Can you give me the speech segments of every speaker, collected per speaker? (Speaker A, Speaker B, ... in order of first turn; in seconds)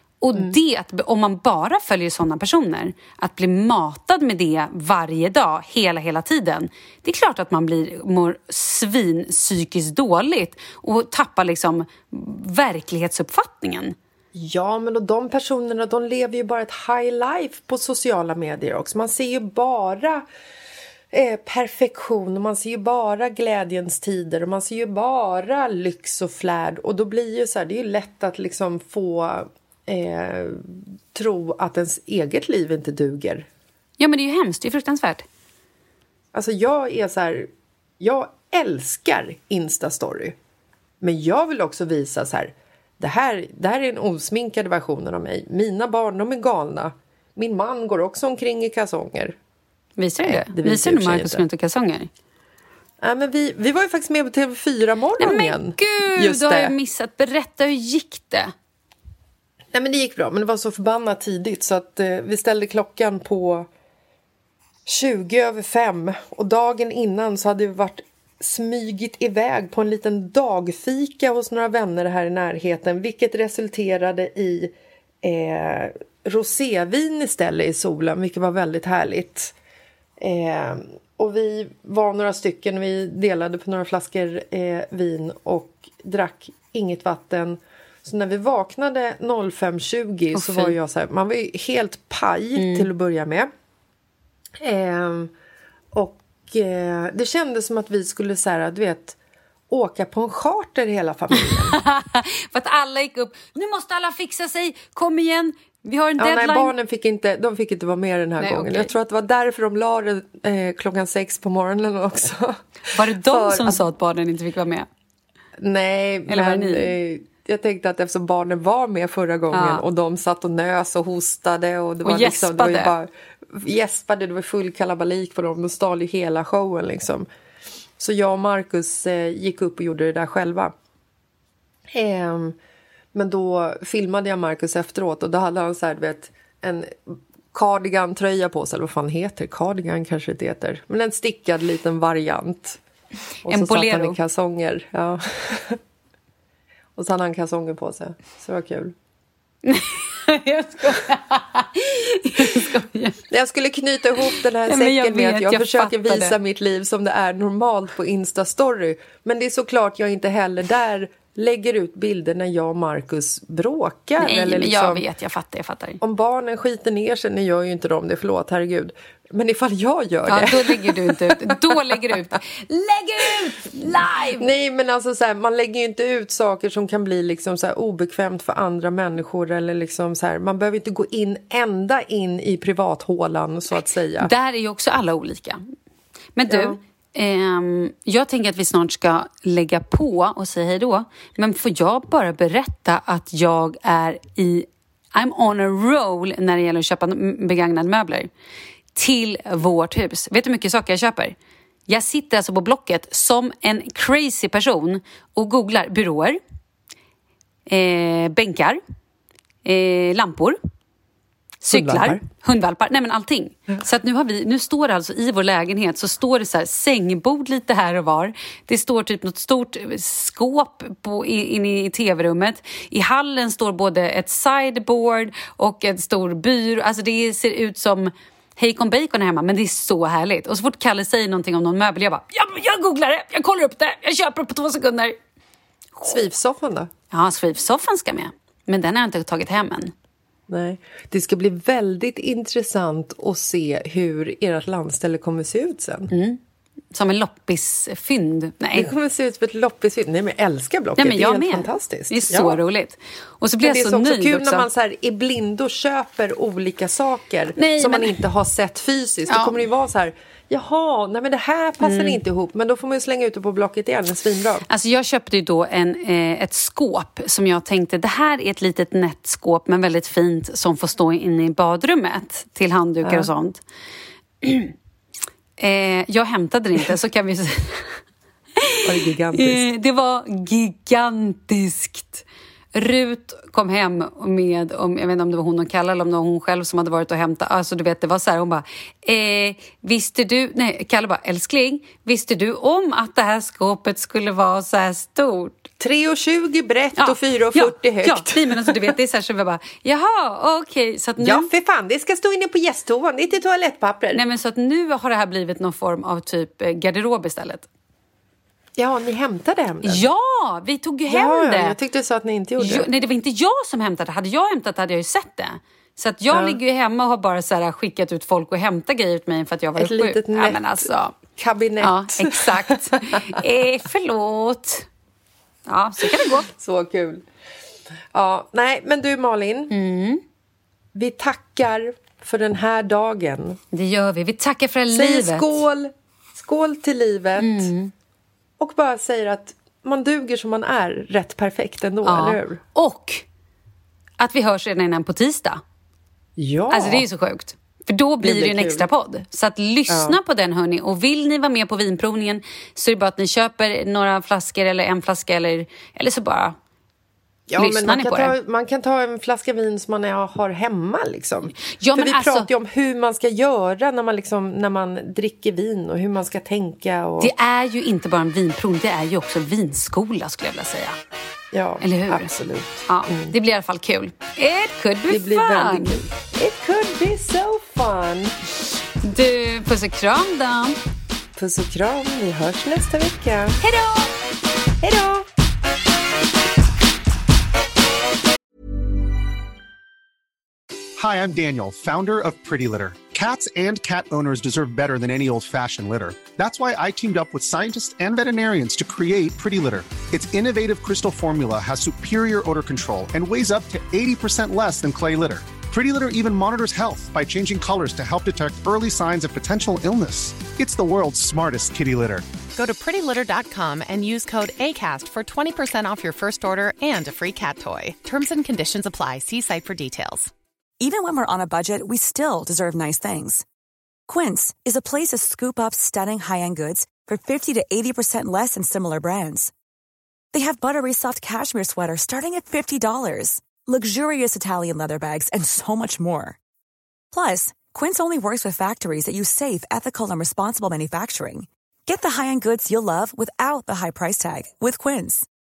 Speaker A: 0.2-13.9, 34.0-35.2, 50.0-52.1, 55.2-58.5, 90.3-90.7, 92.6-92.9, 101.5-106.7, 108.4-108.9, 112.9-114.9, 116.3-116.9, 119.5-119.8, 122.0-122.9, 143.5-144.2, 149.7-153.2, 154.7-156.3, 164.2-166.0, 170.3-174.4, 184.2-185.6, 186.3-198.3, 198.9-201.3, 201.9-206.4, 207.7-208.8, 209.6-210.6, 211.6-235.2, 235.9-236.2, 237.1-239.9, 246.1-246.4, 246.9-248.9, 251.0-254.7, 257.6-258.2, 259.3-259.6, 261.8-262.2, 264.7-273.6, 274.4-274.7, 275.6-278.0, 279.3-295.7, 297.0-301.5, 304.1-307.7, 309.8-311.8, 312.6-321.1, 321.8-324.9, 325.7-326.5, 329.7-330.2, 333.7-335.6, 337.4-337.9, 342.0-343.2, 344.2-345.6, 346.7-356.6, 357.6-358.3, 361.7-362.5, 367.2-371.0, 371.8-372.3, 372.9-376.1, 379.0-380.8, 383.6-384.1
Speaker B: 14.3-20.2, 21.1-33.5, 36.3-40.3, 41.0-49.4, 50.2-51.4, 53.0-56.7, 59.7-63.7, 64.8-79.5, 80.2-93.5, 94.6-95.3, 95.9-99.2, 99.7-101.8, 106.2-113.8, 115.6-127.3, 128.0-130.7, 131.9-132.6, 133.1-142.8, 143.4-145.8, 146.9-148.9, 153.3-165.0, 166.0-172.4, 174.4-184.3, 186.5-186.8, 211.7-212.2, 236.1-236.9, 240.5-246.1, 248.7-252.6, 253.6-264.6, 273.0-273.3, 278.8-279.7, 295.8-298.9, 301.2-304.2, 308.8-310.1, 311.1-312.9, 316.3-316.6, 319.8-323.4, 326.0-327.2, 328.1-329.7, 330.9-333.6, 334.9-337.7, 338.6-342.6, 346.4-347.1, 348.2-348.9, 349.9-350.2, 357.5-367.3, 371.5-373.3, 375.1-378.3, 381.4-383.6, 384.8-385.3
Speaker C: 391.0-412.2
Speaker D: 412.5-420.3
Speaker E: 420.8-423.4, 424.1-429.5, 430.3-436.3, 437.1-445.2